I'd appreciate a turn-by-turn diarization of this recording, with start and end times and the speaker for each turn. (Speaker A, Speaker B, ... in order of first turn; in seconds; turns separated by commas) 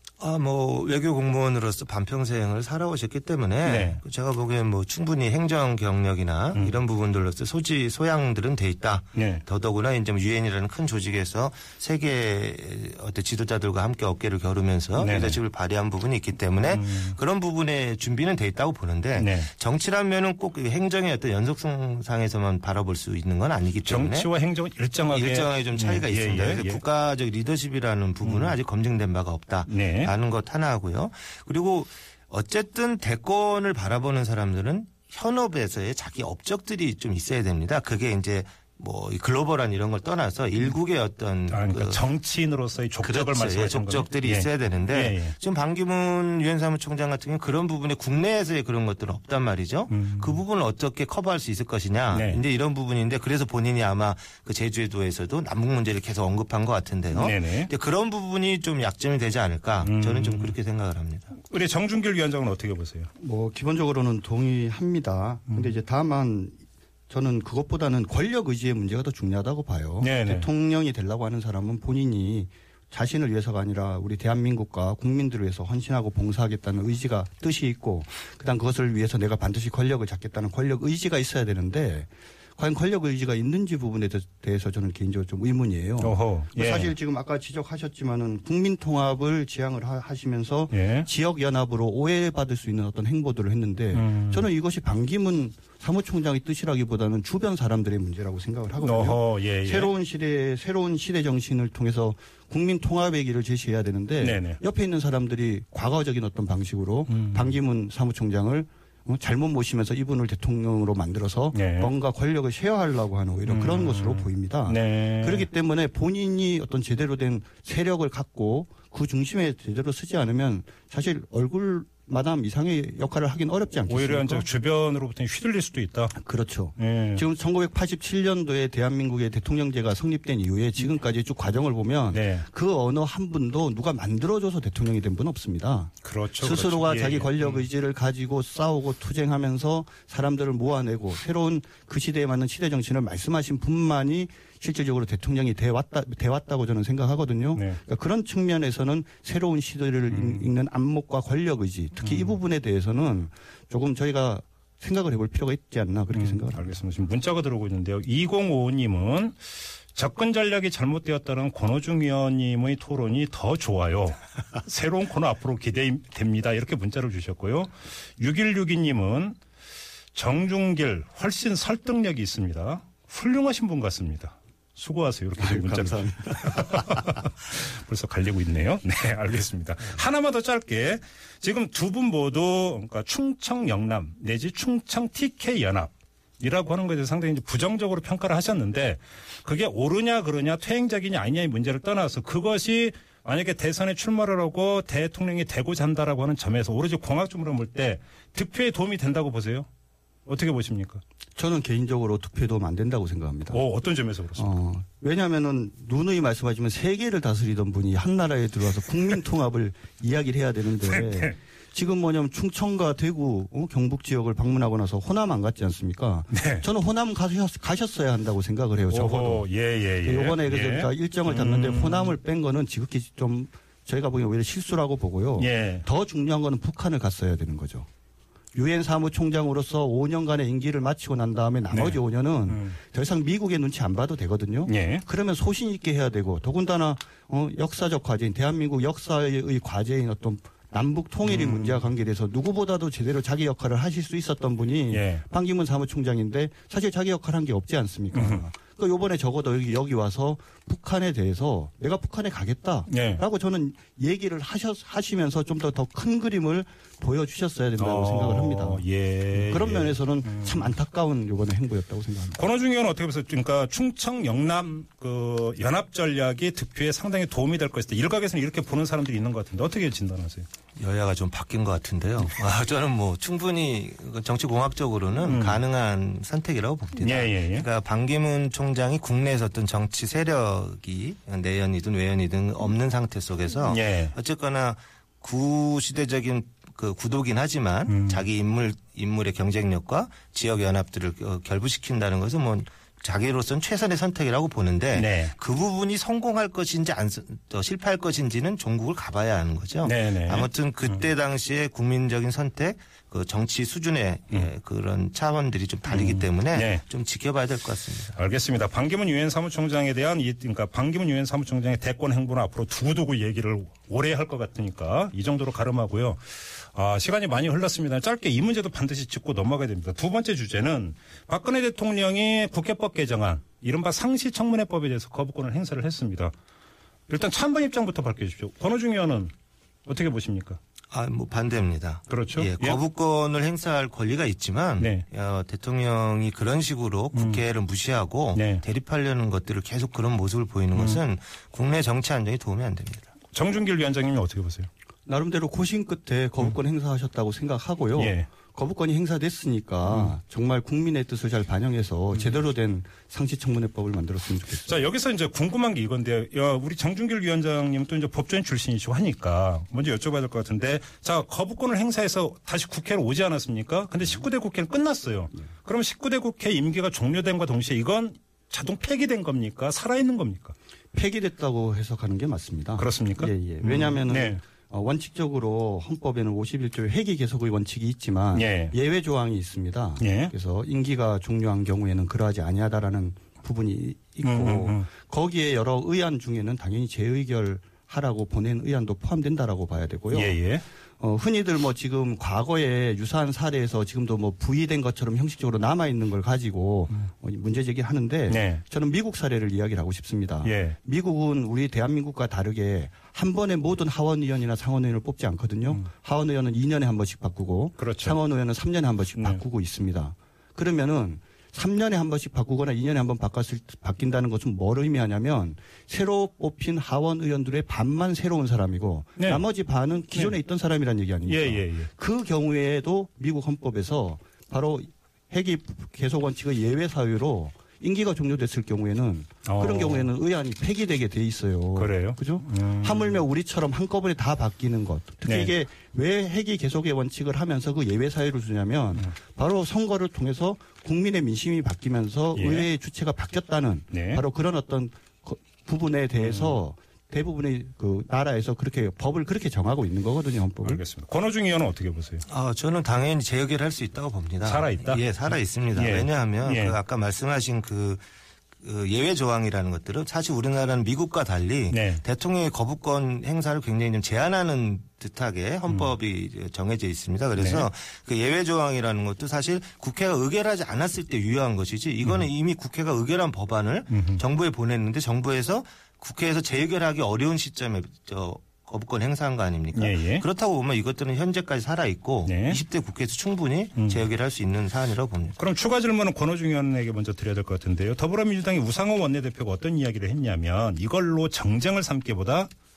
Speaker A: 0.2-24.3, Speaker B: 3.6-4.0, Speaker B: 9.2-9.4, Speaker B: 15.0-15.4, Speaker B: 16.7-17.2, Speaker B: 19.2-19.5, Speaker B: 23.9-26.8, Speaker A: 25.1-42.0, Speaker B: 28.2-28.6, Speaker B: 29.7-30.1, Speaker B: 41.5-45.4, Speaker A: 43.0-61.4, Speaker B: 49.9-50.4, Speaker B: 52.1-52.4, Speaker B: 57.1-57.7, Speaker B: 59.8-60.5, Speaker B: 61.4-63.1, Speaker C: 63.2-66.6, Speaker C: 67.1-124.5, Speaker B: 70.0-70.5, Speaker B: 86.0-86.9, Speaker B: 90.7-91.1, Speaker B: 93.9-94.5, Speaker B: 98.8-99.9, Speaker B: 104.2-104.6, Speaker B: 107.1-107.5, Speaker B: 111.5-111.9, Speaker B: 113.5-115.5, Speaker B: 123.9-126.1, Speaker C: 126.2-156.8, Speaker B: 126.8-127.2, Speaker B: 132.1-132.5, Speaker B: 136.0-137.7, Speaker B: 150.1-150.5, Speaker B: 152.0-152.4, Speaker B: 156.1-159.4, Speaker B: 159.9-169.4, Speaker B: 170.2-199.7, Speaker C: 175.4-177.2, Speaker B: 200.3-201.0, Speaker C: 201.4-203.6, Speaker B: 203.5-204.6, Speaker C: 204.4-219.5, Speaker B: 210.9-211.3, Speaker B: 216.3-216.7, Speaker B: 218.9-222.1, Speaker C: 220.0-227.9, Speaker B: 225.4-225.9, Speaker C: 228.5-262.4, Speaker B: 231.7-232.8, Speaker B: 234.7-235.1, Speaker B: 241.2-241.8, Speaker B: 244.9-245.2, Speaker B: 248.1-248.4, Speaker B: 252.9-253.2, Speaker B: 257.8-260.7, Speaker B: 262.4-270.5, Speaker A: 270.8-308.2, Speaker B: 275.3-275.6, Speaker B: 277.0-277.7, Speaker B: 283.7-284.1, Speaker B: 287.9-288.2, Speaker B: 294.9-295.3, Speaker B: 299.8-301.1, Speaker B: 305.9-306.8, Speaker B: 308.2-326.3, Speaker B: 327.1-329.3, Speaker B: 329.9-330.6, Speaker A: 330.9-343.1, Speaker B: 332.1-332.8, Speaker B: 334.8-335.0, Speaker B: 337.1-337.4, Speaker B: 338.4-338.6, Speaker B: 340.8-341.0, Speaker B: 343.3-344.7, Speaker C: 345.1-354.8, Speaker B: 348.0-348.3, Speaker B: 354.6-370.6, Speaker C: 370.9-390.4, Speaker B: 372.8-374.4, Speaker B: 378.3-378.7, Speaker B: 380.0-380.3, Speaker B: 384.2-384.9, Speaker B: 390.1-390.6, Speaker C: 391.0-450.8, Speaker B: 398.3-398.6, Speaker B: 400.4-400.8, Speaker B: 407.8-408.2, Speaker B: 419.2-419.4, Speaker B: 421.3-421.9, Speaker B: 429.4-430.1, Speaker B: 431.8-433.2, Speaker B: 435.2-435.5, Speaker B: 442.4-442.7, Speaker B: 443.9-444.2, Speaker B: 446.2-446.6, Speaker B: 450.6-452.2, Speaker A: 452.3-458.0, Speaker B: 454.4-455.0, Speaker B: 455.8-456.8, Speaker A: 458.6-485.4, Speaker B: 461.7-462.0, Speaker B: 467.4-467.7, Speaker B: 473.9-474.2, Speaker B: 479.7-480.2, Speaker B: 482.2-482.6, Speaker B: 485.4-492.5